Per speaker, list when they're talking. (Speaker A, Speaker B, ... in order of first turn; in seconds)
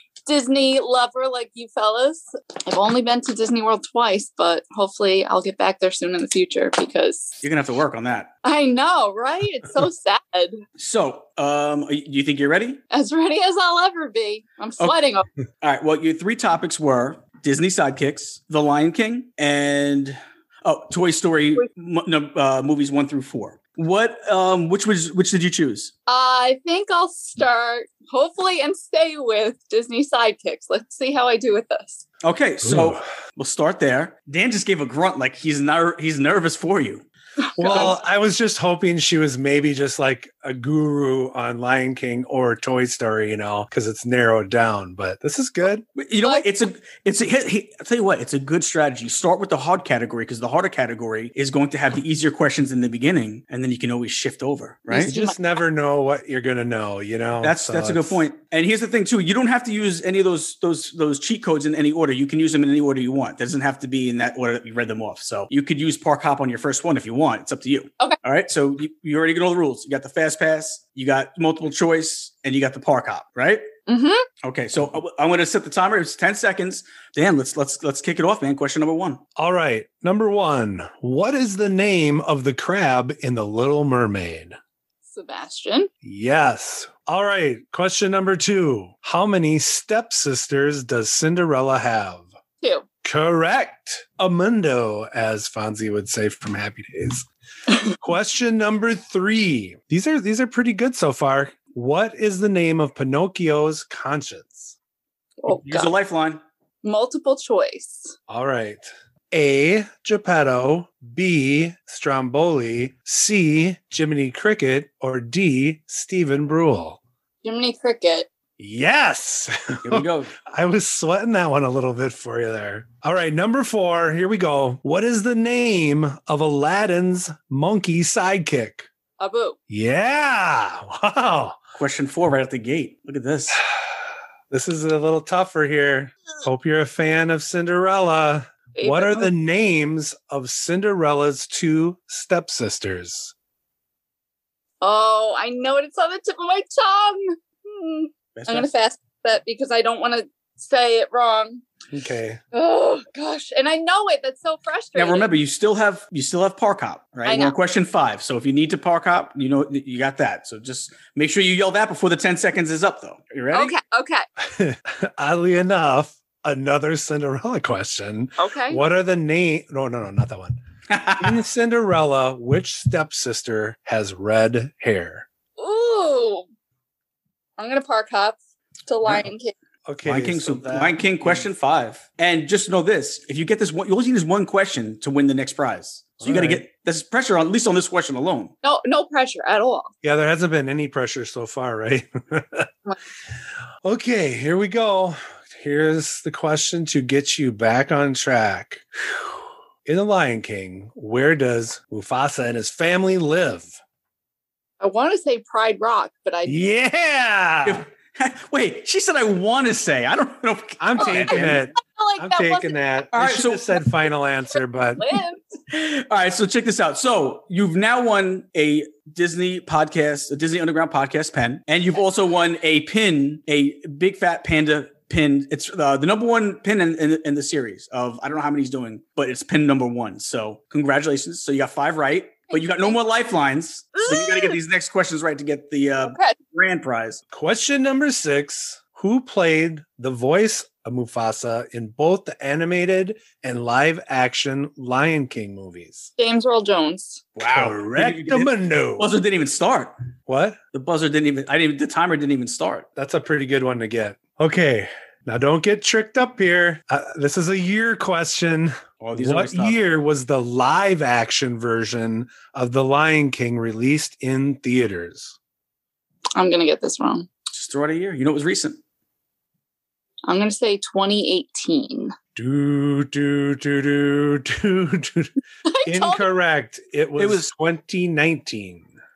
Speaker A: 0.3-7.3, 8.4-10.6, 12.9-15.3, 26.1-32.1, 37.6-37.9, 54.9-55.4, 73.9-74.3, 85.1-85.9, 105.4-105.9, 106.8-108.2, 117.4-118.3, 129.2-129.6, 138.8-139.3, 144.8-151.6, 152.5-155.3, 157.2-157.6, 163.5-164.2, 168.4-168.8, 175.6-176.5, 177.6-179.5, 188.6-189.9, 204.8-206.6, 211.0-212.8, 215.0-215.4, 232.5-233.0, 234.0-234.6, 236.0-236.4, 246.2-247.3, 266.4-267.3, 270.3-272.1, 275.7-276.2
Speaker B: 7.4-8.3, 10.8-12.8, 15.6-25.9, 32.2-37.0, 37.6-37.9, 46.0-55.1, 57.4-73.7, 74.4-79.2, 105.6-106.4, 119.8-120.3, 131.8-133.6, 148.4-148.7, 154.9-163.7, 170.9-171.4, 180.0-188.5, 207.7-211.6, 213.1-213.8, 215.7-237.2, 247.4-249.9, 250.7-252.9, 259.0-259.8, 267.5-268.8, 277.2-277.5
Speaker C: 32.6-33.0, 37.6-45.9, 55.0-58.2, 79.4-84.6, 86.0-92.3, 93.0-97.3, 98.0-104.8, 108.3-117.0, 118.6-128.9, 129.7-131.6, 134.5-143.3, 151.9-152.4, 164.5-170.6, 171.2-175.3, 179.9-181.5, 186.2-186.6, 190.0-192.7, 193.8-203.8, 206.5-207.8, 210.8-215.0, 237.3-246.1, 247.4-249.1, 250.3-250.6, 253.0-265.4, 272.4-275.3, 275.9-278.9